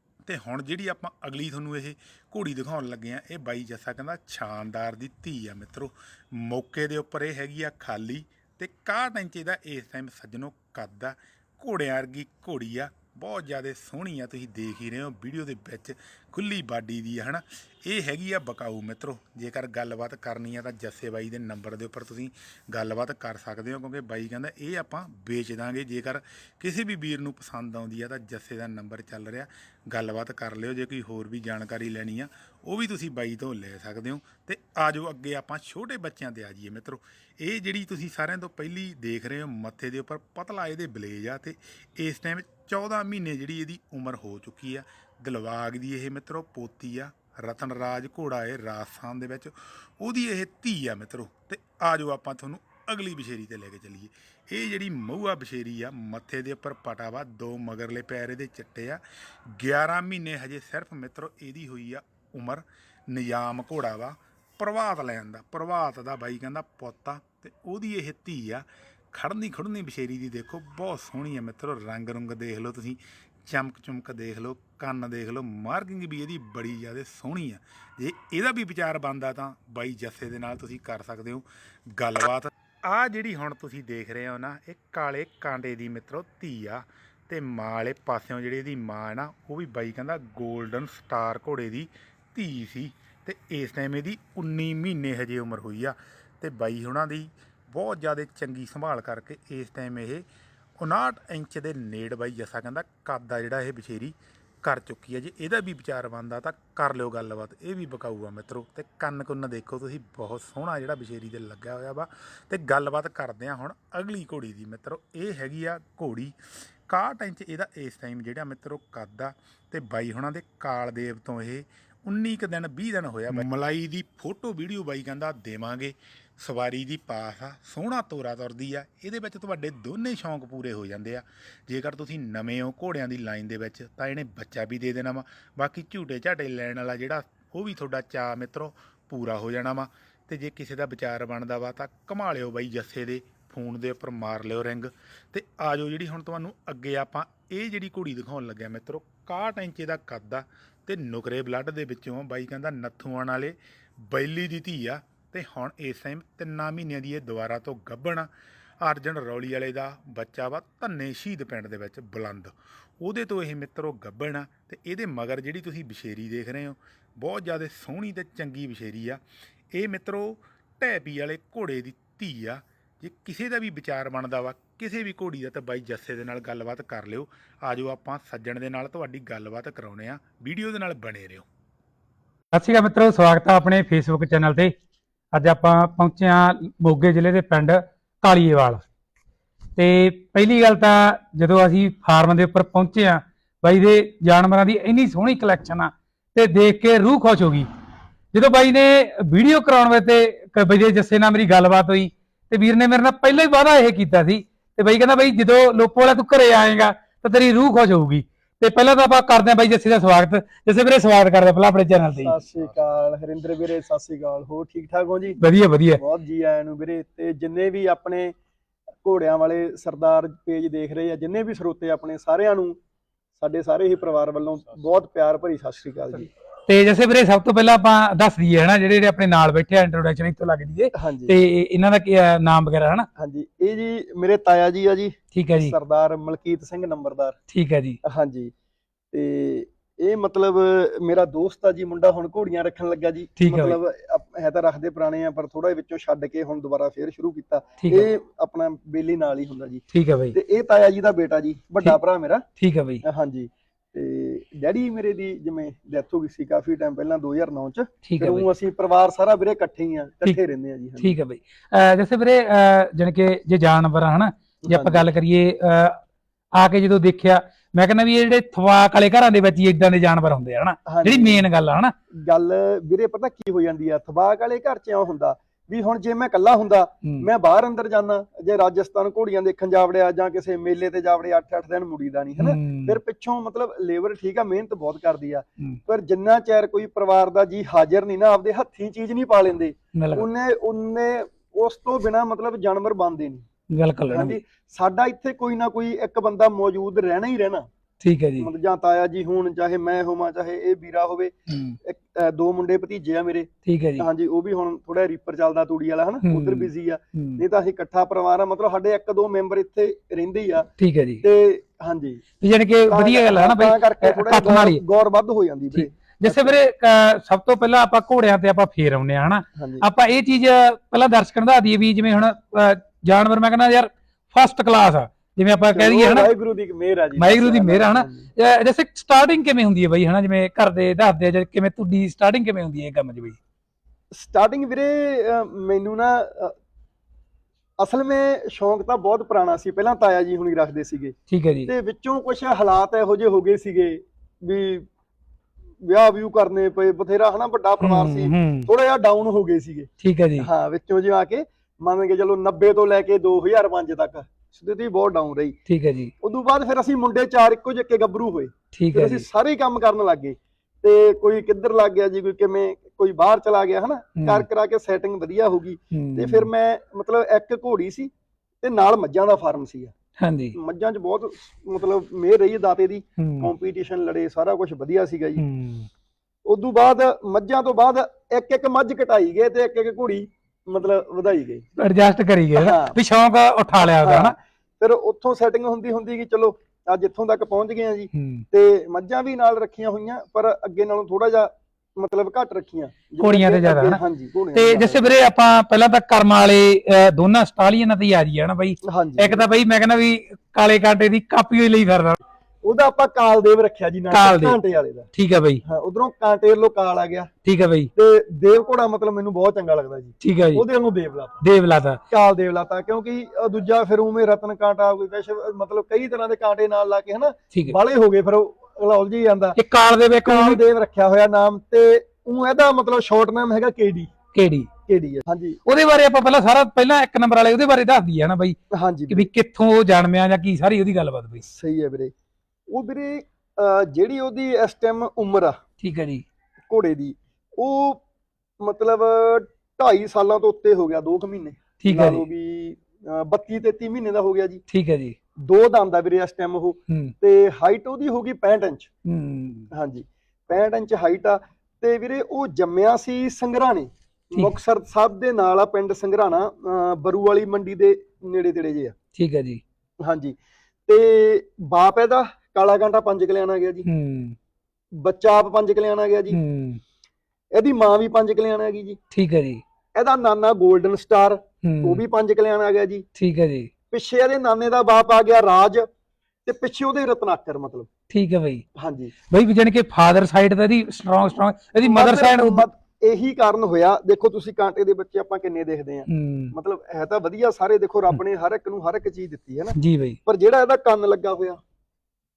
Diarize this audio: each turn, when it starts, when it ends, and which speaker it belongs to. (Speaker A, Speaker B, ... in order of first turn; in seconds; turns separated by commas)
Speaker A: 0.2-100.2, Speaker A: 100.8-116.3, Speaker A: 116.9-158.3, Speaker A: 158.8-169.2, Speaker A: 169.7-181.5, Speaker B: 182.5-184.7, Speaker B: 185.3-188.8, Speaker B: 189.8-197.7, Speaker B: 198.3-212.3, Speaker C: 212.2-215.4, Speaker B: 215.4-216.0, Speaker C: 216.0-218.3, Speaker C: 219.0-222.8, Speaker C: 223.4-226.3, Speaker B: 226.7-233.1, Speaker C: 230.9-231.3, Speaker C: 233.2-237.4, Speaker B: 235.3-235.8, Speaker B: 237.5-238.0, Speaker C: 238.0-238.5, Speaker C: 239.1-252.4, Speaker B: 243.4-243.8, Speaker B: 247.8-248.1, Speaker B: 249.9-250.3, Speaker B: 252.6-253.0, Speaker C: 253.0-261.1, Speaker B: 258.0-258.5, Speaker B: 261.0-266.0, Speaker C: 264.6-265.1, Speaker B: 266.6-271.9, Speaker C: 270.9-271.4, Speaker C: 272.2-293.4, Speaker B: 282.4-283.0, Speaker B: 289.9-290.3, Speaker B: 293.7-294.4, Speaker C: 294.1-297.7, Speaker B: 298.0-298.5, Speaker C: 298.4-310.7, Speaker B: 301.5-301.8, Speaker B: 303.6-304.1, Speaker B: 306.2-307.4, Speaker B: 310.8-311.2, Speaker C: 311.2-312.2, Speaker B: 312.4-314.8, Speaker C: 312.9-316.6, Speaker B: 315.7-326.3, Speaker C: 319.6-319.9, Speaker C: 325.7-328.3, Speaker B: 327.2-333.4, Speaker C: 334.1-336.5, Speaker C: 337.8-341.1, Speaker B: 341.3-341.7, Speaker C: 341.7-344.9, Speaker C: 345.8-355.6, Speaker B: 347.8-348.7, Speaker B: 350.0-350.5, Speaker B: 355.7-356.1, Speaker C: 356.2-368.1, Speaker B: 358.7-359.2, Speaker B: 364.2-364.4, Speaker B: 365.9-366.5, Speaker C: 368.6-369.9, Speaker B: 370.2-370.6, Speaker C: 370.5-375.4, Speaker B: 373.2-373.5, Speaker B: 375.4-375.9, Speaker C: 376.4-381.6, Speaker B: 381.8-384.3, Speaker C: 382.5-383.0, Speaker C: 383.8-395.0, Speaker B: 388.1-388.4, Speaker B: 393.2-394.0, Speaker B: 394.5-402.2, Speaker C: 398.8-399.4, Speaker C: 402.6-405.1, Speaker B: 404.1-404.6, Speaker B: 405.1-405.6, Speaker C: 405.6-407.3, Speaker B: 407.4-407.9, Speaker C: 407.9-411.4, Speaker B: 410.2-410.6, Speaker B: 411.4-412.0, Speaker C: 412.1-419.6, Speaker B: 419.6-420.6, Speaker C: 420.2-424.1, Speaker B: 424.3-424.7, Speaker C: 424.9-425.6, Speaker B: 425.6-428.6, Speaker C: 428.7-429.3, Speaker B: 429.1-431.4, Speaker C: 431.4-432.1, Speaker C: 432.7-435.6, Speaker B: 435.8-436.2, Speaker C: 436.7-438.0, Speaker C: 438.6-444.6, Speaker B: 441.8-442.2, Speaker B: 444.7-445.2, Speaker C: 445.4-448.9, Speaker B: 446.9-447.1, Speaker B: 449.1-449.7, Speaker C: 449.7-458.9, Speaker B: 459.1-459.6, Speaker C: 460.0-460.4, Speaker C: 460.9-463.9, Speaker B: 463.9-464.4, Speaker C: 465.0-466.4, Speaker B: 466.3-466.8, Speaker C: 467.5-469.0, Speaker B: 469.1-469.6, Speaker C: 469.9-473.1, Speaker B: 471.6-472.0, Speaker B: 473.2-473.7, Speaker C: 473.9-475.9, Speaker C: 476.4-477.9, Speaker B: 478.1-478.6, Speaker C: 478.8-479.1, Speaker B: 479.3-482.6, Speaker C: 481.8-491.6, Speaker B: 486.1-486.5, Speaker B: 489.8-490.2